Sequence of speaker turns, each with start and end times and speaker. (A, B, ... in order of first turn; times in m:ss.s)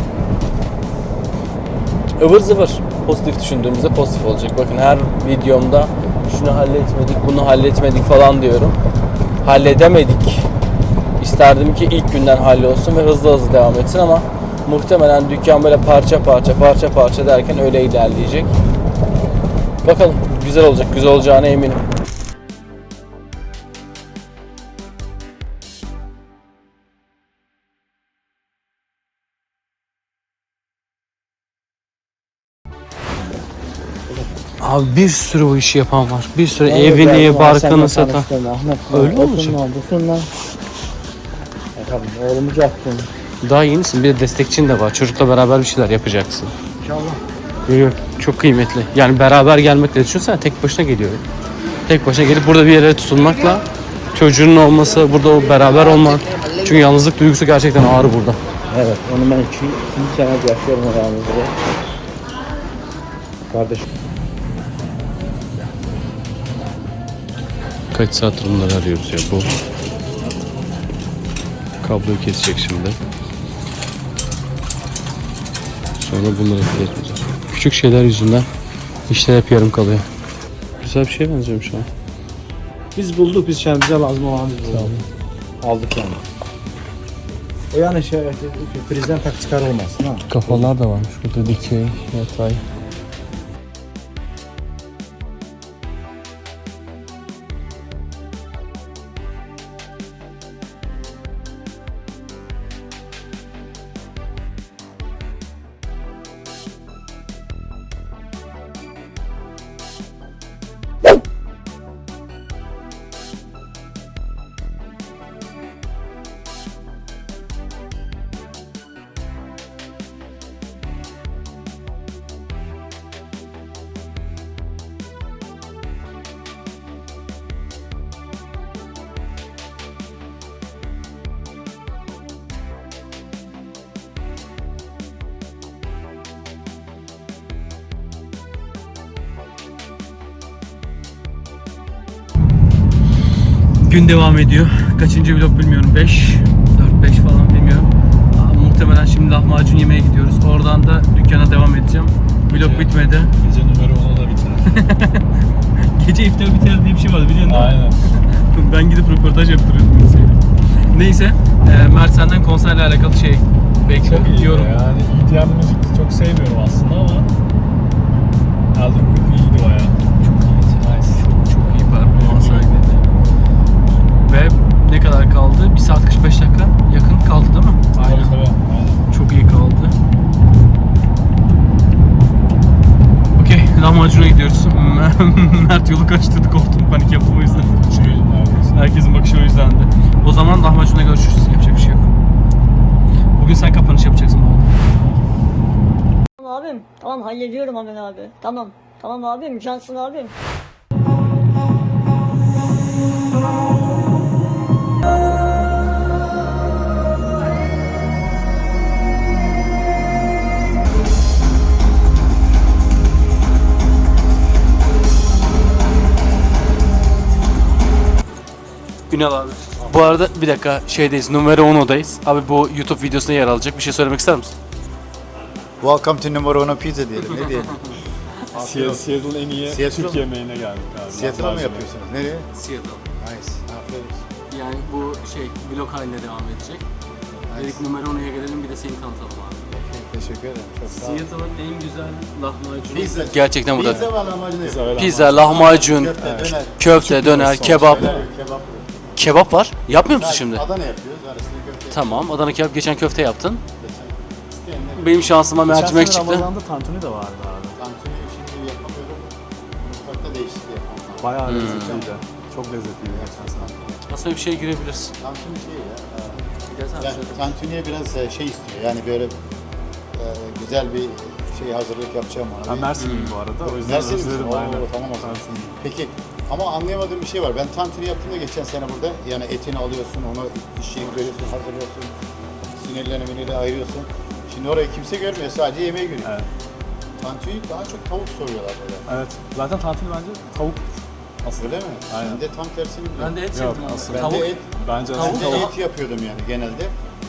0:02.1-0:08.8 A
0:09.4-0:10.5 A
0:11.2-0:18.5 A
0:19.8-0:21.8 A
0:34.1-0:34.4 B
0:34.6-0:38.3 A
0:36.6-0:40.3 B
0:38.9-0:39.6 A
0:41.8-0:43.1 B
0:43.4-0:46.5 A
0:46.8-0:47.2 B
0:47.6-0:51.2 A
0:51.8-0:58.4 A
0:58.7-1:01.6 B
1:03.5-1:03.8 B
1:07.9-1:09.5 A
1:11.8-1:13.0 A
1:16.0-1:18.5 A
1:19.1-1:20.0 A
1:20.8-1:21.9 A
1:23.0-1:24.9 B
1:24.7-1:25.0 A
1:25.6-1:26.2 B
1:27.7-1:30.6 B
1:30.3-1:32.6 A
2:23.8-2:33.3 A
2:32.5-2:34.8 C
2:34.7-2:44.7 A
2:37.4-2:38.0 C
2:44.0-2:47.3 C
2:48.7-2:50.0 C
2:50.2-2:53.0 A
2:50.8-2:51.2 C
2:52.1-2:52.7 C
2:54.2-2:58.4 A
2:58.0-2:59.0 C
2:59.1-3:00.0 A
3:03.3-3:07.8 A
3:07.6-3:08.8 C
3:08.7-3:12.1 A
3:13.4-3:14.8 A
3:16.4-3:20.3 D
3:39.1-3:44.5 A
3:45.8-3:47.8 E
3:47.2-3:48.0 A
3:48.5-3:52.0 C
3:48.5-3:49.0 E
3:49.6-3:50.3 E
3:51.1-3:52.5 E
3:52.5-3:53.0 A
3:53.2-3:54.2 E
3:54.5-3:56.8 A
3:57.3-3:57.8 E
3:57.5-3:59.6 A
3:59.7-4:01.2 E
4:00.9-4:04.1 A
4:02.9-4:06.8 E
4:04.6-4:05.6 C
4:04.9-4:08.2 A
4:06.2-4:08.2 C
4:07.6-4:09.1 E
4:09.2-4:10.6 A
4:10.1-4:12.2 E
4:11.9-4:13.6 A
4:13.8-4:15.3 E
4:14.9-4:16.5 A
4:15.7-4:17.8 C
4:17.8-4:22.2 E
4:21.2-4:23.7 C
4:21.4-4:22.0 A
4:23.0-4:24.0 E
4:24.1-4:25.1 A
4:25.2-4:29.4 E
4:26.7-4:27.5 A
4:30.1-4:33.0 E
4:32.7-4:35.4 C
4:33.0-4:33.4 A
4:33.6-4:42.1 E
4:42.8-4:46.4 E
4:47.2-4:49.0 E
4:49.1-4:50.9 C
4:51.4-4:52.4 C
4:51.6-4:53.4 E
4:53.2-4:55.7 A
4:53.5-4:55.6 C
4:54.1-4:56.9 E